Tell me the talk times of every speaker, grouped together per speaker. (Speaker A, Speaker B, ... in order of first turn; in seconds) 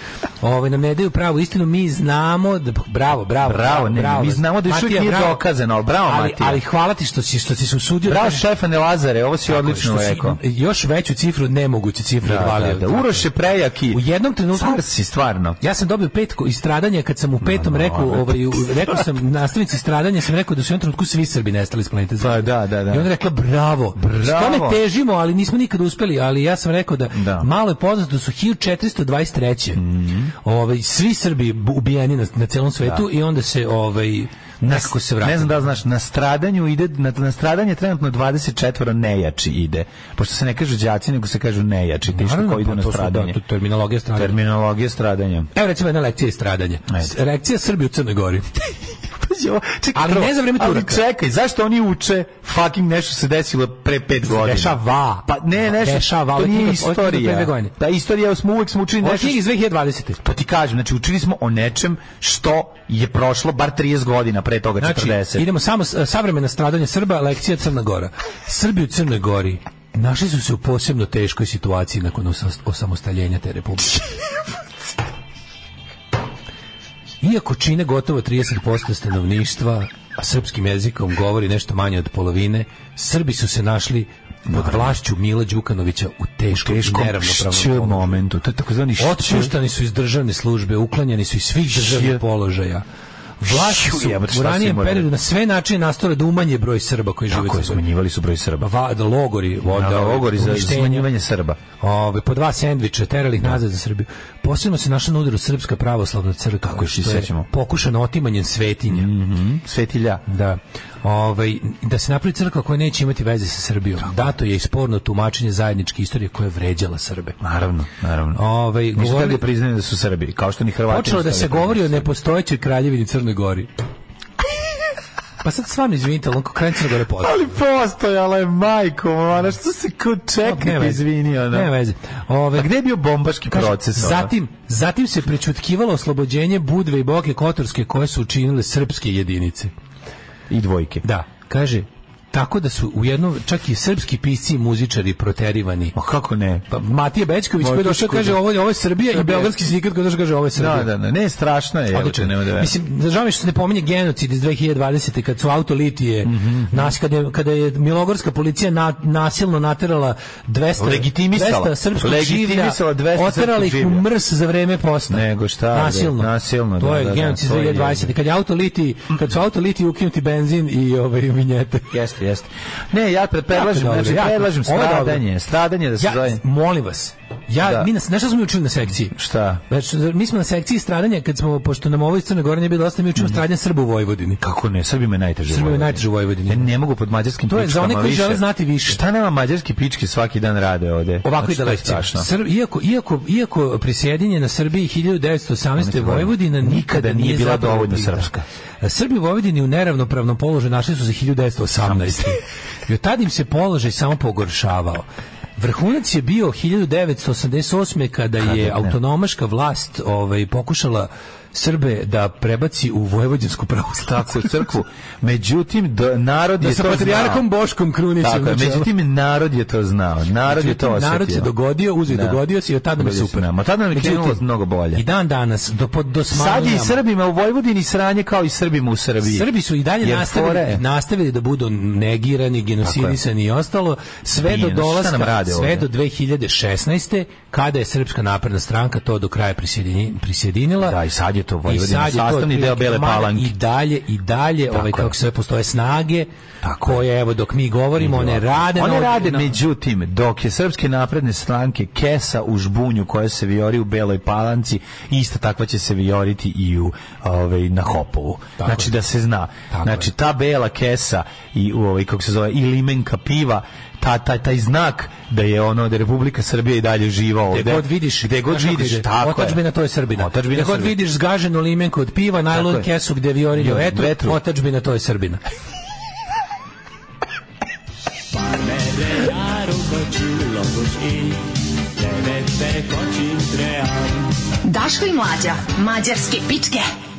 Speaker A: 0.4-5.5, 6.0-8.4, 9.5-13.3, 13.9-14.8, 15.6-29.8, 30.4-35.7, 42.1-44.3, 45.5-48.6, 49.9-51.0, 54.2-57.7, 59.0-60.2, 64.8-74.0, 77.2-88.2, 89.0-92.8, 93.4-97.9, 98.6-101.1, 101.8-109.1, 110.3-117.4, 118.3-119.4, 120.9-123.7, 125.4-127.4, 130.4-132.7, 133.5-139.7, 141.0-145.9, 146.7-150.9, 151.9-171.9, 173.5-175.2, 176.0-184.4, 185.5-186.7, 187.4-189.0, 191.2-198.3, 198.8-205.1, 205.6-214.6, 216.6-218.9, 220.4-227.0, 229.2-241.0, 241.7-246.3, 246.8-249.6, 258.6-258.9, 259.7-260.1, 267.5-275.4, 278.3-284.2
Speaker B: 3.4-6.6, 8.0-10.4, 12.2-15.6, 17.4-19.1, 22.2-23.1, 23.9-24.8, 27.1-27.5, 29.8-30.3, 34.6-43.4, 44.1-45.5, 49.2-59.4, 60.2-65.5, 84.5-85.0, 86.5-89.5, 91.6-92.2, 93.5-95.1, 97.3-98.7, 99.7-101.6, 106.6-107.5, 108.9-110.2, 117.4-122.1, 127.2-131.7, 132.5-134.3, 140.5-141.0, 145.9-146.8, 147.6-148.4, 149.1-149.5, 150.5-152.7, 156.2-156.9, 160.8-164.1, 165.1-168.1, 171.9-176.4, 177.6-177.9, 179.1-179.6, 184.4-192.3, 195.8-198.4, 201.8-202.4, 208.4-208.9, 214.0-217.4, 218.2-221.5, 222.1-222.4, 223.0-225.0, 226.3-229.5, 230.0-230.8, 232.8-233.2, 234.4-235.9, 240.8-243.5, 244.7-245.2, 246.6-247.1, 248.0-271.0, 272.5-272.9, 273.5-274.4
Speaker C: 284.6-286.9